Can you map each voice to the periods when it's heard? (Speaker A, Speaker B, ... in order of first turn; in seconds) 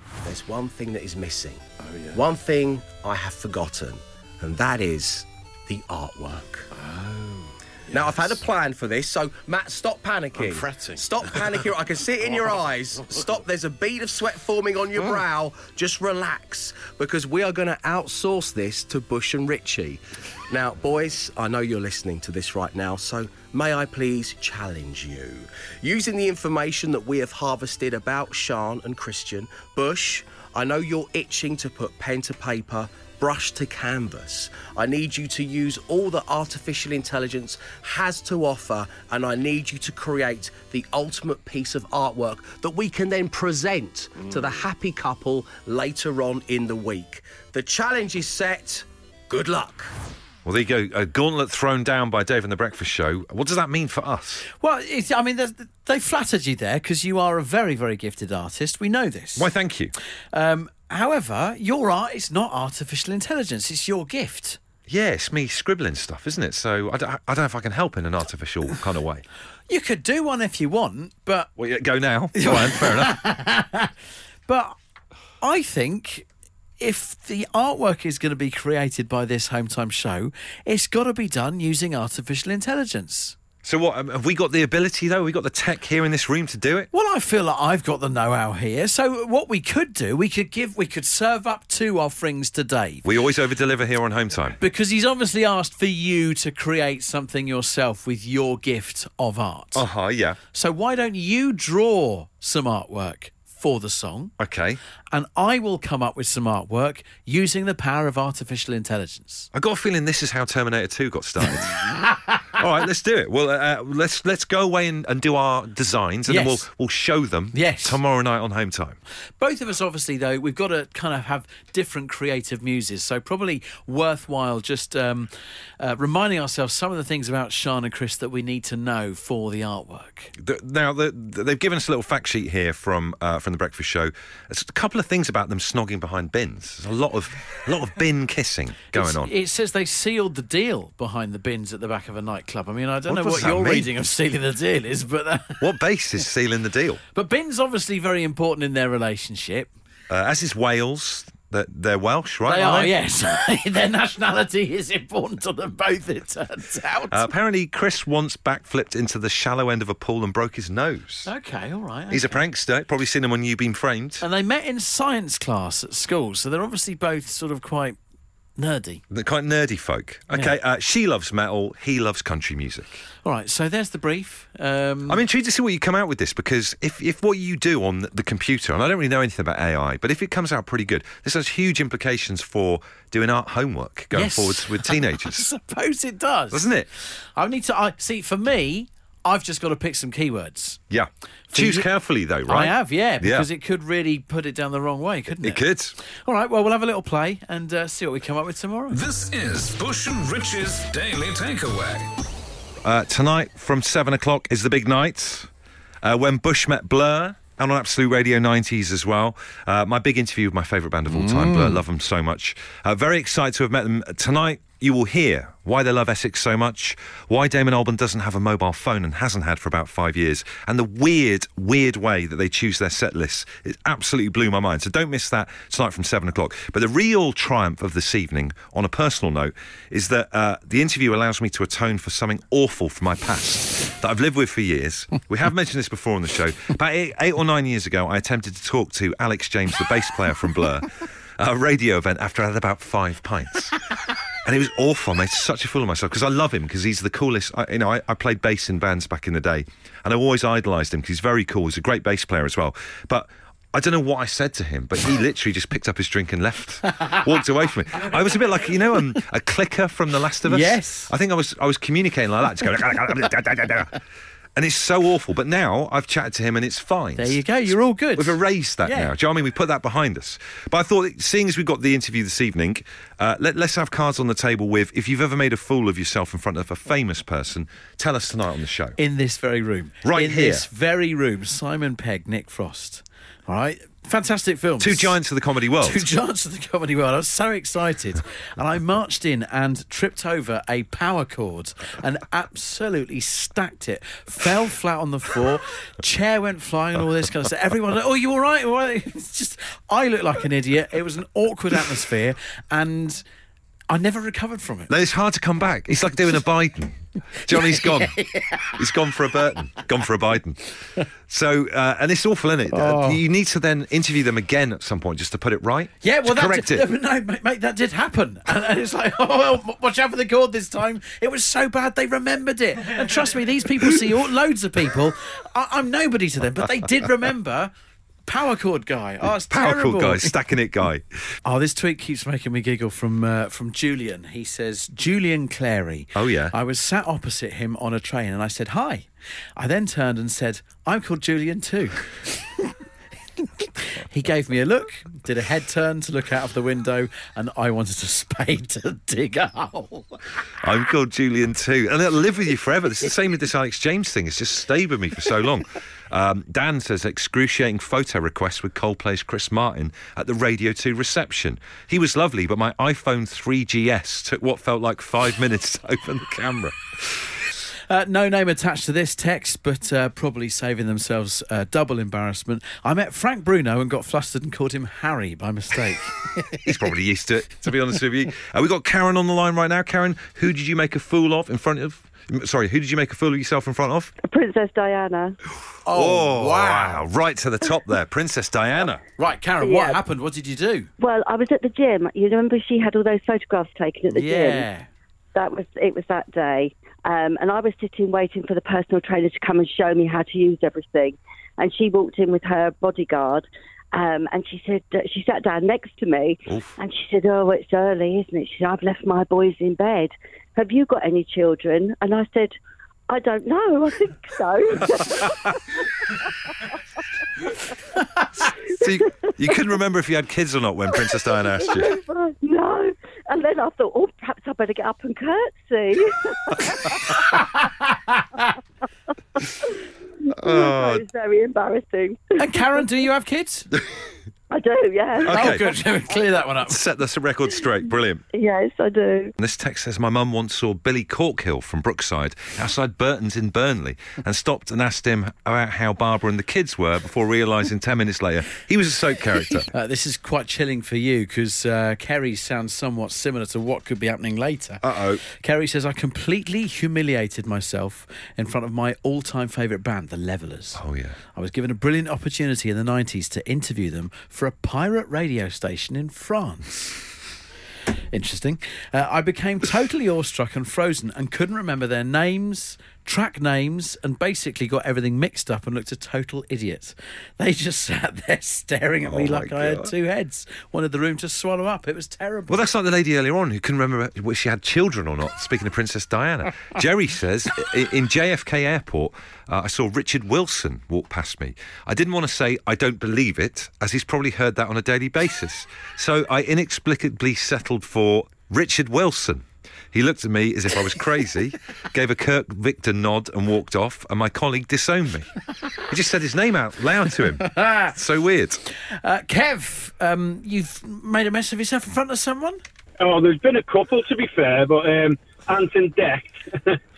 Speaker A: 0.2-6.7, 7.9-49.9
Speaker B: 1.8-2.2, 6.8-7.5, 10.4-11.5, 54.5-59.5, 60.3-64.6, 69.7-71.5, 72.3-73.9, 74.5-74.8, 75.4-76.3, 76.8-83.4, 86.9-93.1, 94.6-99.9, 100.5-104.3, 105.1-109.5, 111.6-112.4, 116.3-116.7, 117.5-118.0, 119.4-130.3, 138.9-145.8, 147.1-149.7, 152.4-157.3, 161.3-162.4, 164.2-168.0, 168.6-169.0, 173.2-175.2, 184.1-190.8, 191.5-191.9, 192.4-199.0, 211.1-211.8, 260.4-261.1, 267.2-269.1, 279.0-285.2, 285.8-303.2, 303.9-304.9, 307.5-308.8, 312.7-313.2, 316.0-327.7, 328.3-330.4, 331.4-342.7, 343.4-350.3, 367.9-376.7, 385.9-387.0, 389.2-390.9, 394.1-394.9, 427.1-428.4, 432.4-433.8, 435.3-436.8, 449.7-460.8, 461.3-467.0, 468.1-482.7, 507.2-507.8, 508.7-512.6
Speaker C: 50.5-54.5, 59.4-59.9, 64.9-69.2, 71.6-73.2, 83.6-86.9, 93.0-94.6, 99.7-100.4, 104.4-104.8, 109.5-111.9, 112.6-119.0, 130.4-139.3, 143.1-143.9, 145.6-147.0, 150.1-152.9, 157.1-161.3, 162.1-164.2, 169.1-173.0, 175.1-185.5, 186.5-186.9, 190.9-193.5, 195.4-196.0, 202.8-205.5, 206.0-243.8, 244.4-264.0, 264.6-267.4, 268.2-279.0, 280.0-280.7, 284.8-286.1, 304.9-308.2, 308.8-316.9, 329.4-331.0, 336.1-336.6, 350.6-367.3, 376.6-384.1, 385.9-389.1, 406.5-406.8, 418.8-422.0, 430.3-431.1, 435.2-435.7, 436.7-438.2, 439.4-449.7, 454.8-455.2, 460.8-461.2, 479.1-479.9, 482.5-505.3, 505.9-508.6
Speaker D: 198.9-202.1
Speaker E: 384.2-385.4, 389.6-390.0, 391.0-394.7, 395.4-412.5, 413.1-416.7, 421.6-427.3, 430.4-432.9, 434.5-436.2, 438.3-439.3
Speaker F: 513.0-516.8